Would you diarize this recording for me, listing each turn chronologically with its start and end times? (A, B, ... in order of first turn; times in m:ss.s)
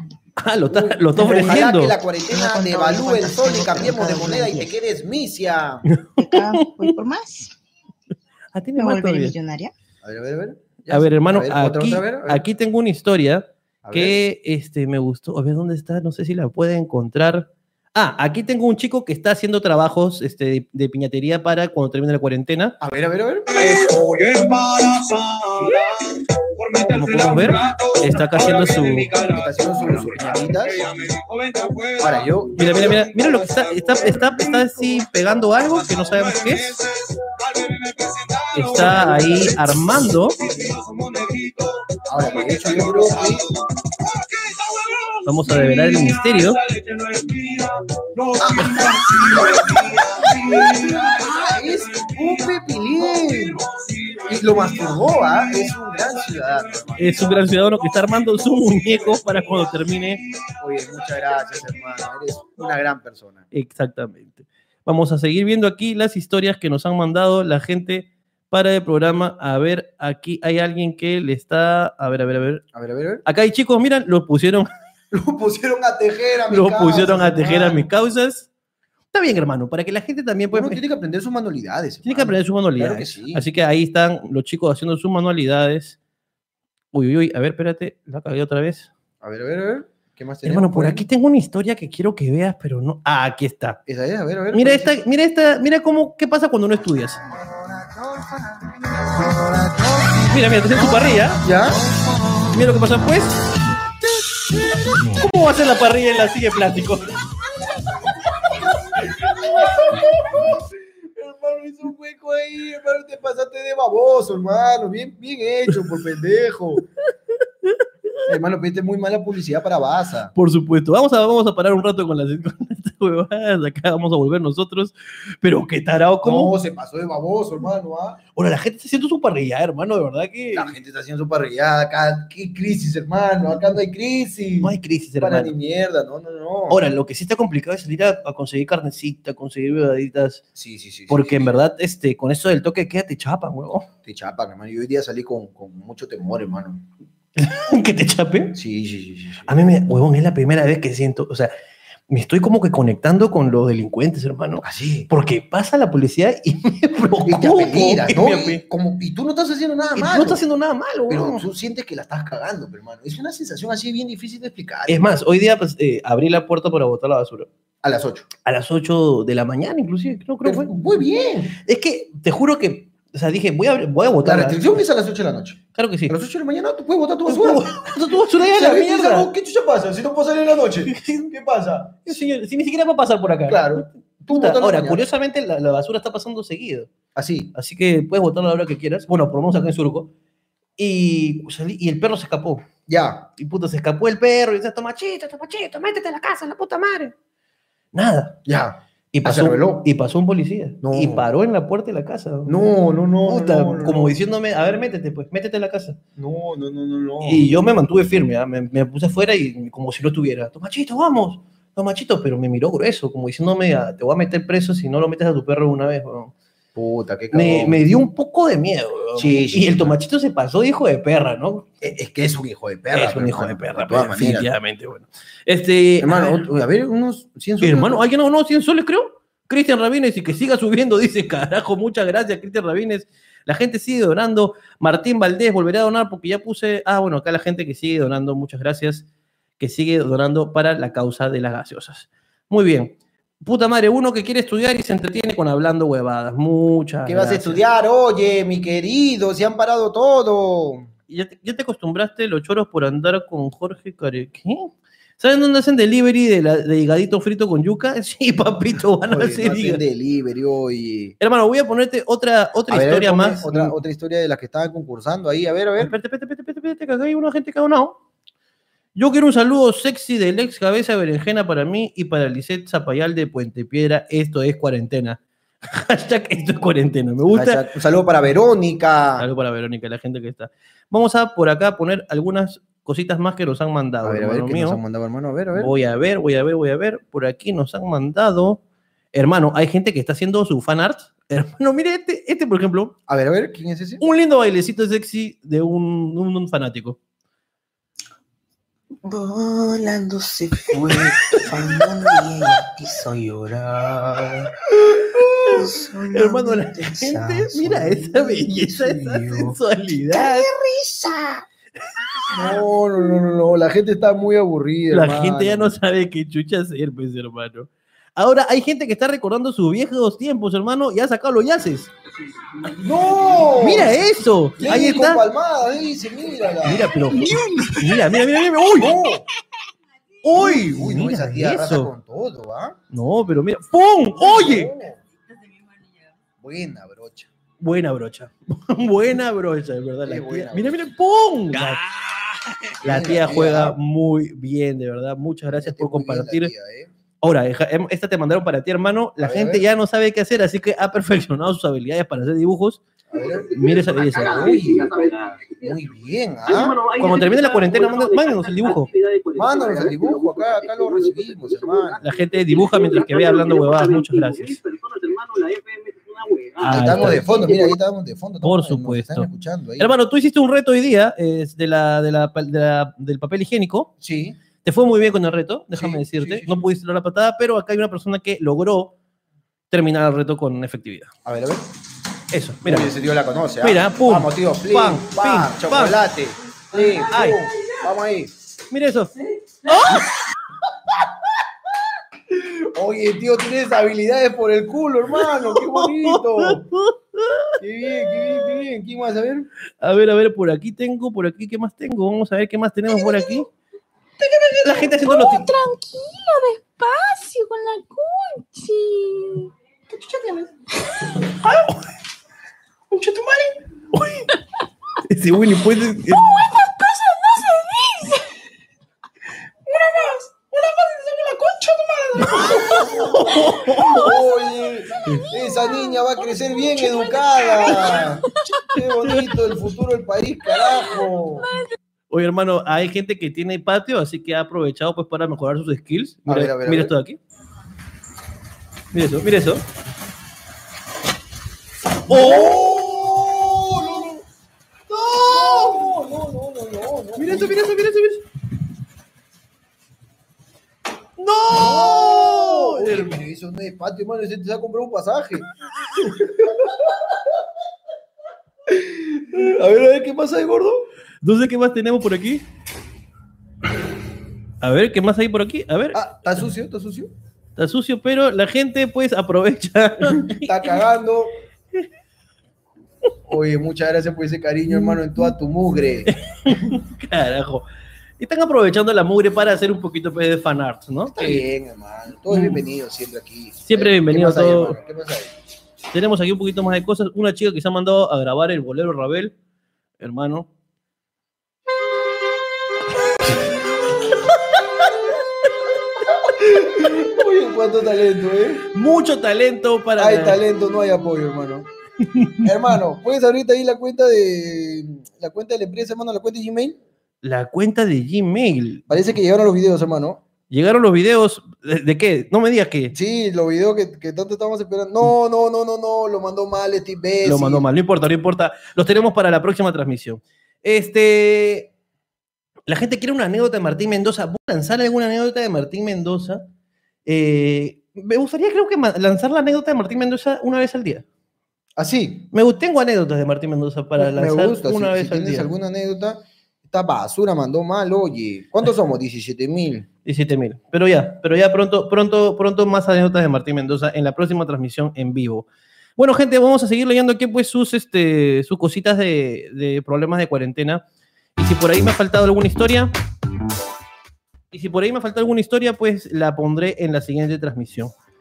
0:00.4-0:02.0 A
0:00.7-0:05.8 B
0:01.2-0:01.8 C
0:02.3-0:04.8 C
0:05.8-0:06.9 A
0:06.2-0:07.6 C
0:08.5-0:09.4 A
0:08.8-0:09.7 C
0:10.0-0:12.4 B
0:10.9-0:22.8 A
0:13.8-0:14.2 B
0:22.8-0:23.6 B
0:23.5-1:02.0 D
0:26.8-0:29.1 A
0:29.3-0:30.8 B
0:32.0-0:32.6 B
0:32.6-0:36.7 A
0:38.6-0:40.4 A
0:42.1-0:43.4 B
0:45.2-0:46.6 A
0:48.4-0:53.6 B
0:54.3-0:57.1 B
0:57.0-1:00.2 A
1:00.6-1:03.4 B
1:03.5-1:12.6 A
1:12.7-1:13.2 B
1:13.2-1:14.7 A
1:15.1-1:17.8 B
1:16.5-1:18.5 A
1:19.1-1:20.8 A
1:20.5-1:23.4 B
1:22.0-1:26.0 A
1:26.9-1:28.9 A
1:29.2-1:31.1 B
1:30.4-1:33.8 A
1:33.8-1:35.0 B
1:34.5-1:37.2 A
1:37.4-1:42.0 B
1:40.2-1:41.5 A
1:42.5-1:43.4 A
1:45.0-1:47.2 A
1:48.6-1:56.8 B
1:58.2-2:00.3 B
2:00.3-2:06.5 A
2:06.2-2:08.2 B
2:08.3-2:10.7 A
2:10.5-2:16.8 B
2:14.6-2:15.5 A
2:16.7-2:20.4 A
2:20.5-2:21.5 B
2:21.1-2:23.9 A
2:24.0-2:26.8 B
2:27.4-2:28.6 A
2:28.5-2:29.5 B
2:29.4-2:31.5 A
2:32.1-2:38.6 A
2:34.6-2:35.1 B
2:37.2-2:40.4 B
2:39.9-2:41.4 A
2:41.1-2:45.0 B
2:44.9-2:47.5 A
2:47.8-2:48.3 B
2:48.4-2:50.7 A
2:50.4-2:51.6 B
2:51.6-2:54.8 A
2:54.2-3:02.2 B
2:55.8-2:56.1 A
2:57.3-2:59.3 A
3:00.9-3:01.3 A
3:02.1-3:06.9 A
3:03.5-3:05.0 B
3:07.1-3:07.5 B
3:07.5-3:10.1 A
3:10.8-3:12.6 A
3:12.9-3:13.3 B
3:13.4-3:17.1 A
3:17.9-3:18.4 A
3:18.4-3:19.8 B
3:19.1-3:22.5 A
3:20.8-3:21.2 B
3:22.4-3:24.2 B
3:23.2-3:26.0 A
3:26.2-3:27.4 B
3:27.2-3:36.3 A
3:36.7-3:37.8 B
3:37.3-3:41.7 A
3:39.2-3:40.0 B
3:41.8-3:44.5 B
3:42.9-3:46.4 A
3:46.0-3:48.0 B
3:47.6-3:59.1 A
3:59.6-4:07.6 A
4:07.0-4:10.9 B
4:11.1-4:19.8 A
4:19.1-4:21.2 B
4:21.2-4:23.7 A
4:22.7-4:25.9 B
4:25.8-4:28.0 A
4:29.0-4:37.6 A
4:37.3-4:39.2 B
4:39.2-4:44.8 A
4:44.0-4:45.7 B
4:45.5-4:48.6 A
4:49.1-4:52.9 A
4:53.1-4:54.0 B
4:54.0-4:57.0 A
4:59.0-5:09.6 C
5:01.0-5:01.5 A
5:05.5-5:10.5 A
5:10.1-5:11.4 C
5:12.1-5:12.4 C
5:12.3-5:15.7 B
5:14.9-5:21.9 A
5:22.7-5:24.0 B
5:23.5-5:25.2 A
5:24.6-5:27.0 B
5:26.6-5:29.0 A
5:27.2-5:28.0 D
5:28.7-5:29.2 B
5:30.2-5:31.9 A
5:30.2-5:32.8 B
5:32.9-5:34.7 A
5:34.2-5:35.0 B
5:36.4-5:37.3 B
5:37.6-5:41.9 A
5:40.0-5:40.8 B
5:41.5-5:43.8 B
5:42.8-5:46.5 A
5:45.5-5:46.9 B
5:47.2-5:52.8 A
5:49.2-5:49.6 B
5:53.1-5:54.9 B
5:53.2-5:55.8 D
5:53.5-5:54.6 A
5:55.6-5:56.8 B
5:56.5-6:07.7 D
5:57.0-5:58.9 A
5:59.4-6:02.0 B
6:02.0-6:04.6 A
6:06.6-6:07.3 A
6:06.7-6:09.9 B
6:08.4-6:13.9 A
6:14.0-6:14.4 B
6:14.6-6:19.0 A
6:15.7-6:16.6 B
6:19.7-6:21.1 A
6:21.2-6:21.7 B
6:22.3-6:22.9 A
6:22.6-6:28.3 B
6:23.6-6:26.0 A
6:26.7-6:27.4 A
6:28.7-6:30.1 A
6:32.3-6:36.6 B
6:35.2-6:37.6 A
6:37.6-6:39.5 B
6:39.8-6:43.5 A
6:44.2-6:44.7 C
6:44.6-6:45.5 A
6:45.0-6:49.5 E
6:51.2-6:51.9 A
6:53.9-6:54.3 A
6:55.0-6:56.3 A
6:56.3-6:58.2 E
6:59.7-7:00.0 E
7:00.7-7:01.6 E
7:01.8-7:02.7 C
7:02.3-7:11.5 B
7:02.4-7:04.2 A
7:05.0-7:05.3 A
7:06.9-7:08.1 E
7:12.1-7:17.2 A
7:16.3-7:16.9 B
7:18.9-7:19.6 A
7:22.1-7:22.7 A
7:22.1-7:24.2 B
7:24.9-7:25.8 A
7:25.0-7:27.7 B
7:27.2-7:28.2 A
7:31.2-7:33.2 A
7:31.5-7:37.1 B
7:38.6-7:40.9 B
7:41.2-7:42.4 A
7:44.6-7:46.2 A
7:45.9-7:47.1 B
7:47.6-7:50.6 A
7:50.0-7:51.3 B
7:53.3-7:56.6 B
7:56.1-7:57.6 A
7:58.2-8:01.4 A
8:01.1-8:05.3 B
8:02.3-8:02.6 A
8:03.6-8:04.8 A
8:05.9-8:09.3 A
8:10.0-8:10.5 A
8:16.1-8:18.7 B
8:18.7-8:20.4 A
8:20.0-8:21.7 B
8:22.0-8:22.5 A
8:22.4-8:26.8 B
8:27.2-8:28.9 A
8:28.9-8:30.2 B
8:30.5-8:32.9 A
8:32.9-8:37.6 B
8:37.2-8:41.7 A
8:42.7-8:46.4 A
8:47.0-8:51.0 A
8:51.8-8:52.3 B
8:52.3-8:55.5 A
8:54.0-8:59.9 B
9:00.0-9:05.4 A
9:06.0-9:10.8 A
9:11.4-9:12.9 A
9:14.5-9:17.9 A